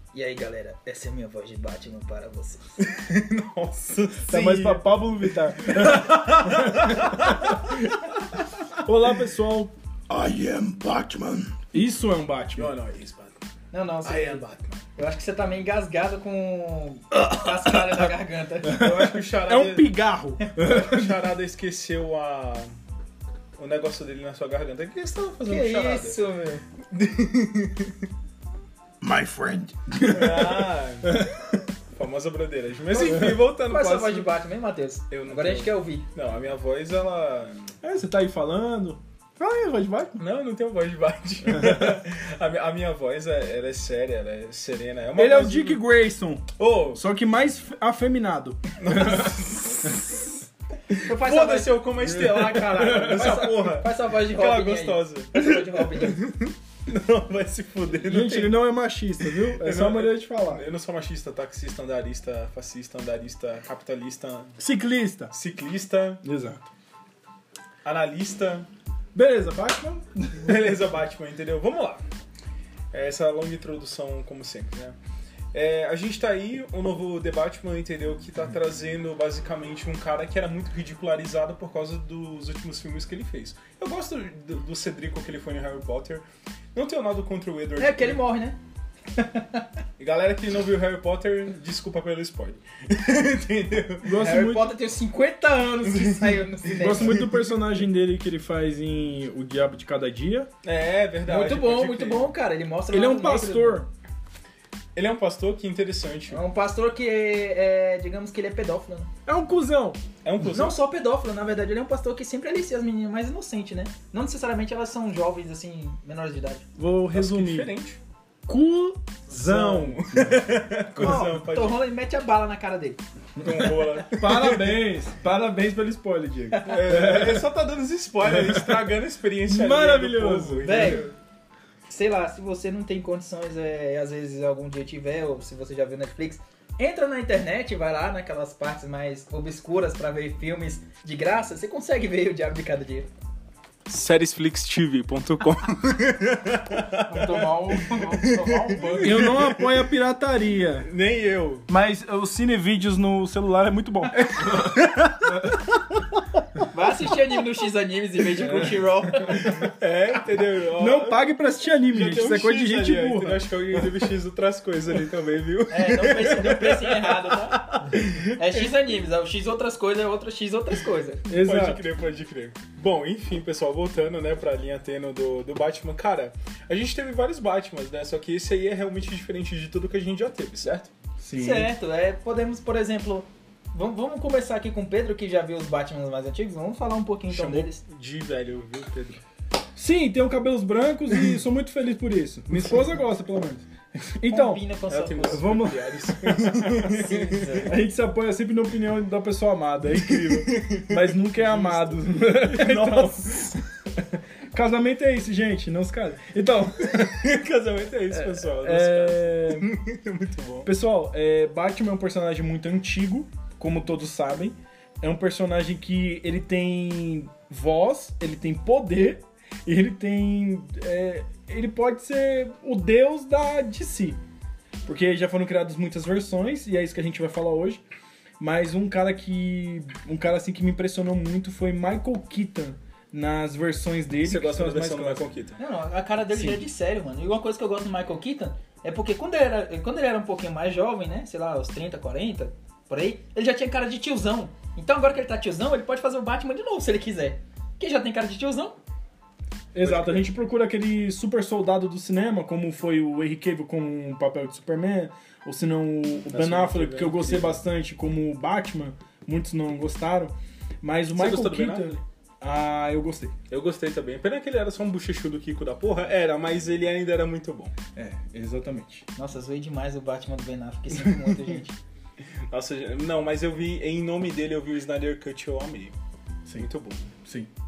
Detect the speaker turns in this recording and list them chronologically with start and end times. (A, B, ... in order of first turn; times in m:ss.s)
0:00.1-0:02.8 A
0:02.8-0:05.0 B
0:04.3-0:08.0 C
0:05.6-0:08.7 B
0:08.8-0:09.7 C
0:10.1-0:11.6 D
0:11.7-0:12.7 C
0:12.6-0:13.4 B
0:13.7-0:18.8 A
0:14.0-0:14.8 B
0:18.6-0:19.9 B
0:18.6-0:21.2 C
0:20.5-0:22.7 B
0:23.6-0:26.2 B
0:25.4-0:26.6 A
0:26.9-0:28.0 B
0:29.0-0:30.6 D
0:30.1-0:31.2 B
0:30.1-0:31.3 C
0:31.9-0:34.3 B
0:32.9-0:36.0 A
0:33.0-0:33.3 C
0:35.1-0:37.7 B
0:37.8-0:40.2 C
0:40.2-0:45.8 B
0:41.5-0:42.0 C
0:45.1-0:50.2 C
0:46.6-0:47.0 B
0:48.8-0:50.1 B
0:50.9-0:51.9 A
0:50.9-0:58.6 B
0:52.1-0:53.5 C
0:52.8-0:56.2 A
0:58.0-1:00.6 C
0:59.3-1:04.6 B
1:04.6-1:05.3 C
1:05.3-1:06.2 B
1:06.2-1:06.7 C
1:07.8-1:08.7 B
1:09.1-1:10.7 C
1:10.4-1:12.0 B
1:12.9-1:14.9 B
1:15.5-1:28.2 B
1:27.8-1:28.6 A
1:29.1-1:29.7 A
1:30.0-1:34.2 B
1:34.0-1:34.7 C
1:34.2-1:37.2 A
1:35.8-1:37.5 B
1:36.8-1:40.5 C
1:40.6-1:42.3 B
1:41.2-1:43.8 A
1:42.9-1:43.9 C
1:44.9-1:46.4 B
1:46.3-1:49.1 A
1:49.2-1:50.0 C
1:50.2-1:50.8 B
1:50.4-1:56.6 A
1:56.8-1:57.7 C
1:57.1-1:58.0 B
1:58.5-2:00.4 C
1:59.3-2:01.8 B
2:01.0-2:01.3 C
2:01.0-2:03.0 A
2:03.4-2:07.5 C
2:03.4-2:04.8 B
2:06.6-2:11.1 B
2:08.2-2:09.0 C
2:09.5-2:11.1 C
2:10.6-2:11.1 A
2:11.9-2:23.1 A
2:23.9-2:29.8 B
2:27.1-2:29.2 A
2:29.0-2:30.9 C
2:30.8-2:31.7 B
2:31.7-2:35.6 C
2:34.2-2:35.6 B
2:36.7-2:39.5 A
2:38.4-2:39.5 C
2:39.3-2:41.2 B
2:40.8-2:43.9 C
2:41.9-2:48.8 B
2:45.7-2:47.6 A
2:48.4-2:51.2 A
2:51.3-2:51.8 C
2:51.3-3:00.9 B
3:01.2-3:01.7 C
3:01.4-3:07.8 A
3:07.3-3:09.2 B
3:09.8-3:14.6 C
3:12.5-3:13.0 B
3:14.3-3:15.4 A
3:14.9-3:17.6 B
3:15.3-3:17.0 C
3:16.8-3:17.7 A
3:17.6-3:27.3 C
3:19.9-3:23.6 B
3:26.9-3:30.7 B
3:28.1-3:29.7 C
3:30.6-3:44.2 C
3:44.8-3:47.8 C
3:48.4-3:55.2 C
3:54.2-3:55.6 B
3:55.6-4:08.8 A
3:56.3-3:56.6 C
4:09.7-4:23.3 C
4:09.8-4:10.3 B
4:16.3-4:17.6 B
4:21.1-4:22.0 B
4:23.5-4:27.7 B
4:27.9-4:29.0 C
4:29.1-4:31.8 A
4:31.1-4:31.4 B
4:32.5-4:35.9 B
4:36.6-4:37.1 B
4:37.2-4:37.5 C